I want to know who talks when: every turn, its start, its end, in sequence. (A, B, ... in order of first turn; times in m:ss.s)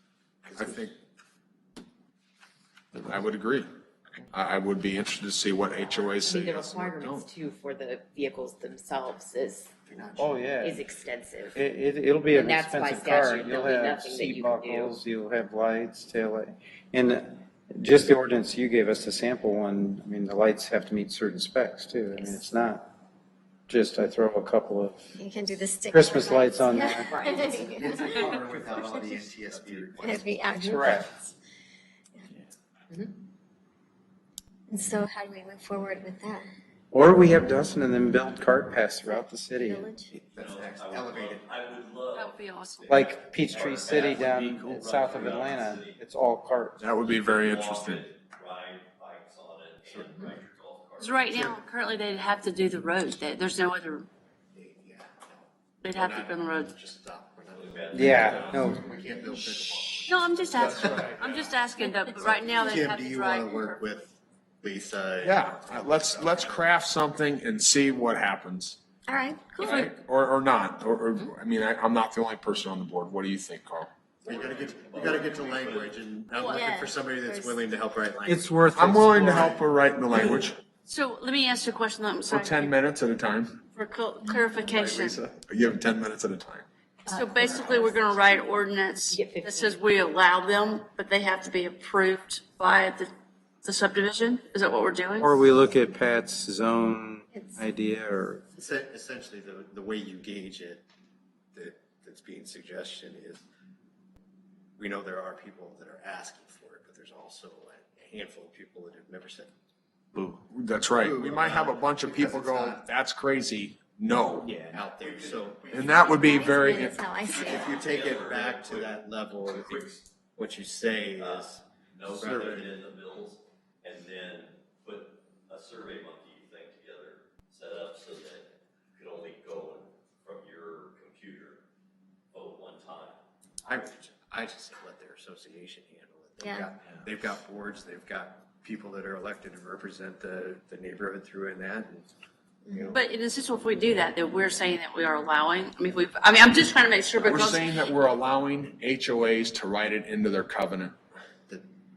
0:00.4-0:00.9 A
0:00.6-0:01.0 B
0:03.0-0:03.7 B
0:04.3-0:07.3 B
0:06.0-0:09.7 C
0:09.8-0:10.5 A
0:10.2-0:10.8 D
0:10.6-0:11.6 C
0:11.5-0:22.9 D
0:12.3-0:14.9 C
0:23.7-0:25.1 D
0:25.2-0:29.2 E
0:25.9-0:27.1 D
0:27.1-0:27.7 C
0:27.4-0:30.4 A
0:29.5-0:30.0 F
0:30.0-0:31.3 E
0:30.6-0:31.1 D
0:34.7-0:36.4 E
0:36.9-0:39.9 D
0:39.0-0:40.1 E
0:40.1-0:41.5 A
0:40.4-0:46.0 F
0:42.1-0:43.0 G
0:42.9-0:46.8 D
0:46.8-0:48.0 B
0:47.0-0:51.5 F
0:49.9-0:50.3 A
0:51.0-0:54.1 G
0:54.5-1:01.2 A
0:55.8-0:56.7 G
0:57.5-0:58.4 F
0:57.9-0:58.8 D
0:58.1-0:58.7 B
1:00.0-1:04.0 G
1:00.6-1:01.6 B
1:02.0-1:02.8 E
1:02.3-1:06.7 A
1:05.2-1:08.8 B
1:09.1-1:09.8 E
1:09.6-1:13.9 B
1:09.6-1:09.9 G
1:14.2-1:16.0 F
1:14.2-1:19.5 A
1:16.4-1:17.6 E
1:18.2-1:19.6 D
1:18.7-1:20.6 B
1:20.8-1:22.8 G
1:22.2-1:23.6 B
1:23.7-1:25.2 G
1:25.4-1:26.6 B
1:27.1-1:33.1 G
1:27.1-1:28.3 C
1:29.1-1:29.8 C
1:33.6-1:35.4 G
1:35.2-1:38.4 D
1:38.5-1:40.8 A
1:41.5-1:43.4 A
1:44.8-1:49.5 A
1:50.5-1:54.5 B
1:51.0-1:52.9 A
1:54.4-1:56.5 F
1:54.6-1:56.4 A
1:55.7-1:57.0 B
1:56.2-1:57.8 E
1:57.3-2:02.7 A
1:57.7-2:00.0 F
2:01.2-2:11.6 F
2:12.3-2:13.2 F
2:13.6-2:22.0 A
2:16.4-2:16.7 E
2:22.7-2:22.9 E
2:22.7-2:23.0 A
2:22.9-2:27.8 G
2:27.2-2:31.0 B